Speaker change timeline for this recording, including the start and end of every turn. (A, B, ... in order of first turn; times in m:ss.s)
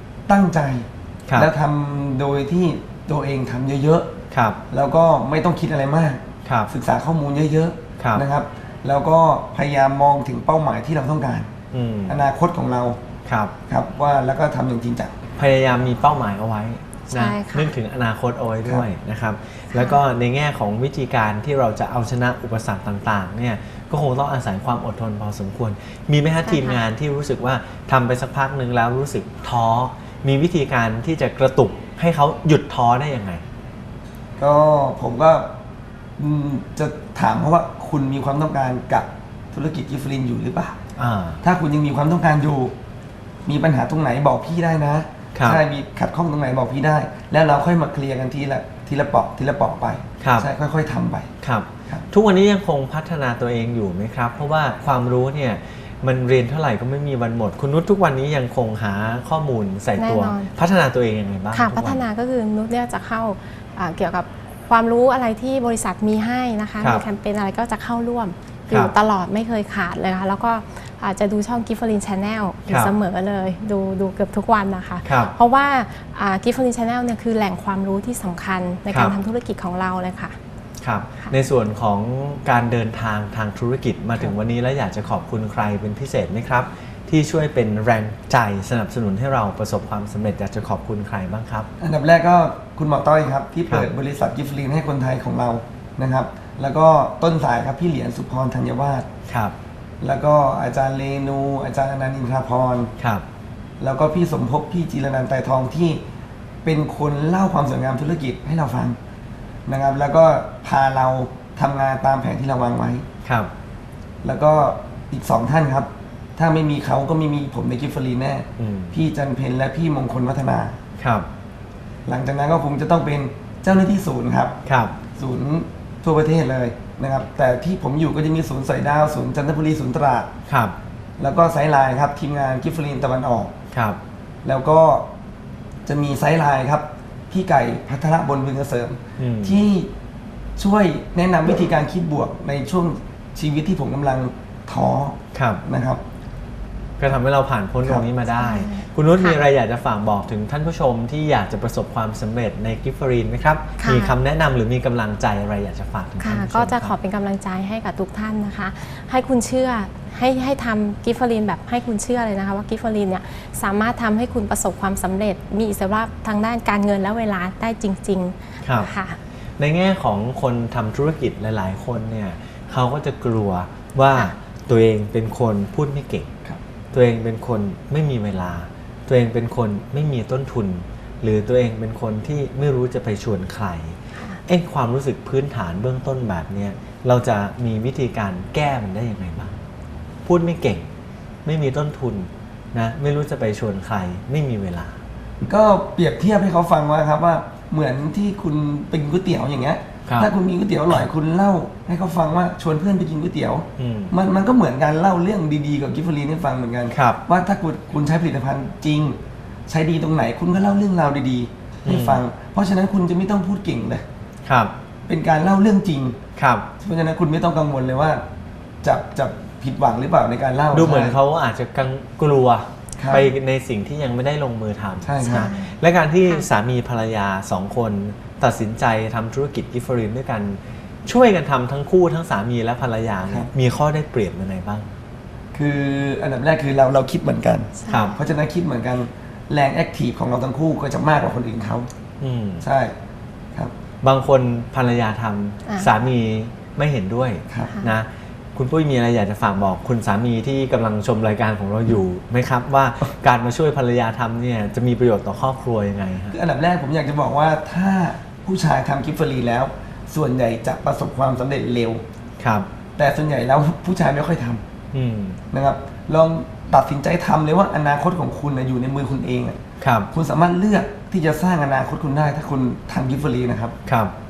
0:00.3-0:04.1 A
0:04.3-0:04.6 B
0:04.7-0:11.5 A
0:06.4-0:06.7 B
0:08.0-0:08.2 B
0:11.7-0:12.2 B
0:12.1-0:13.0 A
0:13.3-0:13.5 B
0:13.7-0:15.2 A
0:15.4-0:33.4 B
0:17.1-0:17.8 C
0:19.7-0:20.0 C
0:26.4-0:26.8 C
0:34.4-0:35.5 A
0:36.2-0:40.8 A
0:41.0-0:41.4 B
0:41.4-0:42.8 A
0:43.5-0:51.3 A
0:45.4-0:45.6 B
0:50.2-0:50.5 B
0:51.4-1:02.0 B
1:00.0-1:00.5 C
1:01.5-1:20.4 C
1:12.7-1:12.9 B
1:15.0-1:15.3 B
1:18.9-1:19.2 B
1:20.8-1:31.7 B
1:31.8-1:39.1 A
1:39.3-1:39.6 B
1:40.0-1:42.9 A
1:43.0-1:43.2 B
1:43.8-1:46.0 A
1:46.6-1:49.0 A
1:49.7-1:53.0 A
1:53.2-1:53.5 B
1:54.2-2:00.8 A
1:58.6-1:59.0 B
2:01.0-2:01.3 B
2:02.1-2:04.6 A
2:04.7-2:05.0 B
2:05.1-2:10.3 A
2:10.5-2:10.8 B
2:11.2-2:13.5 A
2:13.7-2:14.0 B
2:14.4-2:15.1 A
2:15.9-2:19.9 A
2:19.2-2:19.6 B
2:20.6-2:26.0 A
2:25.3-2:25.6 B
2:27.0-2:37.0 B
2:27.8-2:28.1 A
2:28.4-2:29.4 C
2:33.8-2:34.2 C
2:36.2-2:49.2 C
2:48.6-2:48.9 B
2:49.6-2:56.4 B
2:56.9-3:09.6 B
3:04.2-3:04.4 C
3:10.2-3:10.9 B
3:11.4-3:15.0 B
3:15.4-3:34.0 A
3:23.8-3:24.2 B
3:26.9-3:27.2 B
3:31.8-3:32.2 B
3:34.5-3:34.7 B
3:35.1-3:36.2 A
3:36.4-3:36.7 B
3:36.8-3:38.2 A
3:38.8-3:41.2 A
3:40.7-3:54.9 B
3:43.0-3:43.3 A
3:45.0-3:45.5 A
3:45.2-3:46.5 C
3:55.5-4:01.9 A
3:57.8-3:58.2 C
3:57.9-3:58.2 B
4:02.2-4:02.7 B
4:02.6-4:03.0 A
4:04.0-4:16.4 B
4:05.6-4:05.9 C
4:07.5-4:07.8 A
4:16.3-4:22.0 A
4:22.4-4:22.7 B
4:23.0-4:24.6 A
4:24.9-4:25.4 B
4:25.5-4:29.6 A
4:29.8-4:30.1 B
4:30.1-4:33.8 A
4:33.9-4:34.1 B